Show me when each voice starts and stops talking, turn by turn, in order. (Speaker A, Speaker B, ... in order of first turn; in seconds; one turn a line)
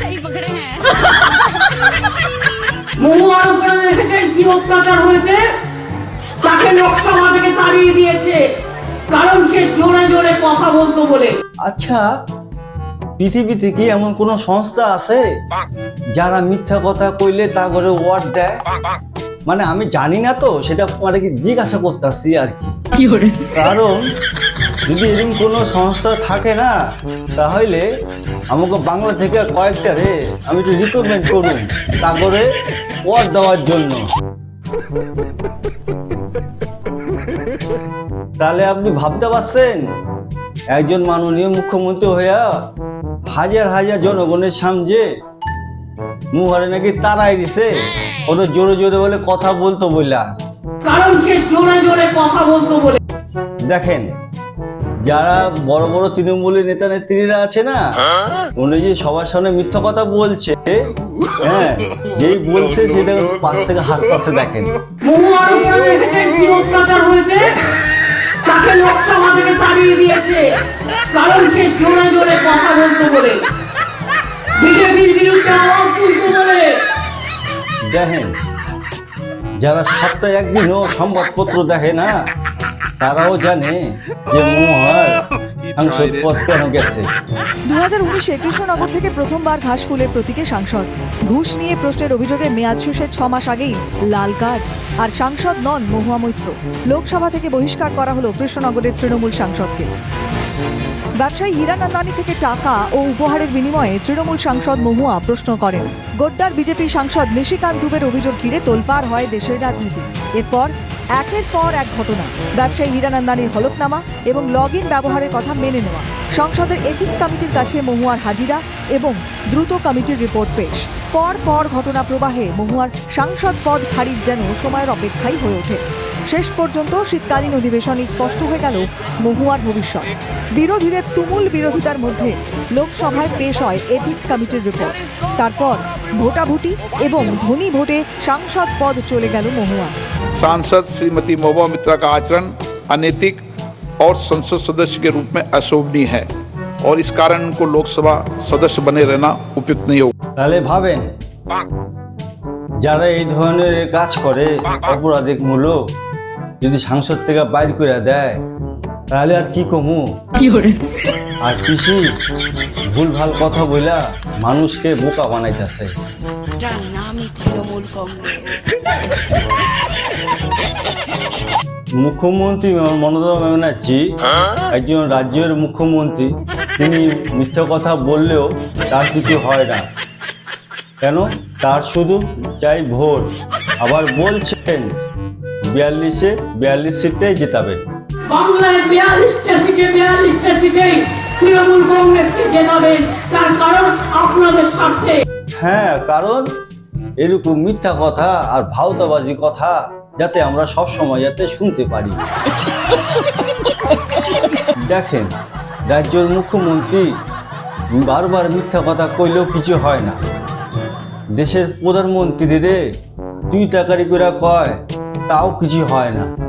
Speaker A: 3.0-5.4
Speaker A: 6.4-8.4
Speaker A: 9.1-11.3
Speaker B: 11.6-12.0
Speaker B: 13.2-15.2
Speaker B: 16.1-18.6
Speaker B: 19.4-22.7
Speaker B: 23.5-24.0
Speaker B: 24.9-26.7
Speaker B: 27.4-27.8
Speaker B: 28.5-32.5
Speaker B: 33.0-34.0
Speaker B: 38.4-39.8
Speaker B: 40.7-42.6
Speaker B: 43.3-45.0
Speaker B: 46.3-47.7
Speaker B: 48.3-50.3
Speaker A: 50.8-53.0
Speaker B: 53.6-54.1
Speaker B: 55.0-58.0
Speaker B: 58.6-64.7
Speaker A: 65.0-67.4
Speaker A: 68.4-70.5
Speaker A: 71.1-73.4
Speaker A: 74.6-76.8
Speaker B: 77.9-78.3
Speaker B: 79.6-82.2
Speaker B: 83.0-85.2
Speaker B: 85.8-87.0
Speaker C: 87.7-99.9
Speaker C: 101.2-139.9
Speaker D: 140.4-143.4
Speaker D: 144.0-146.3
Speaker D: 146.8-150.1
Speaker B: 150.4-151.0
Speaker B: 152.8-155.8
Speaker B: 156.6-158.4
Speaker B: 159.1-160.1
Speaker B: 161.4-162.1
Speaker B: 162.9-165.9
Speaker E: 166.6-168.9
Speaker B: 172.0-174.1
Speaker B: 174.7-179.8
Speaker B: 181.0-184.9
Speaker B: 185.7-187.8
Speaker A: 188.3-195.2
Speaker B: 195.6-196.4
Speaker B: 197.2-202.2
Speaker B: 204.8-205.3
Speaker B: 205.9-207.1
Speaker B: 207.9-210.2
Speaker B: 211.3-212.8
Speaker B: 213.5-216.3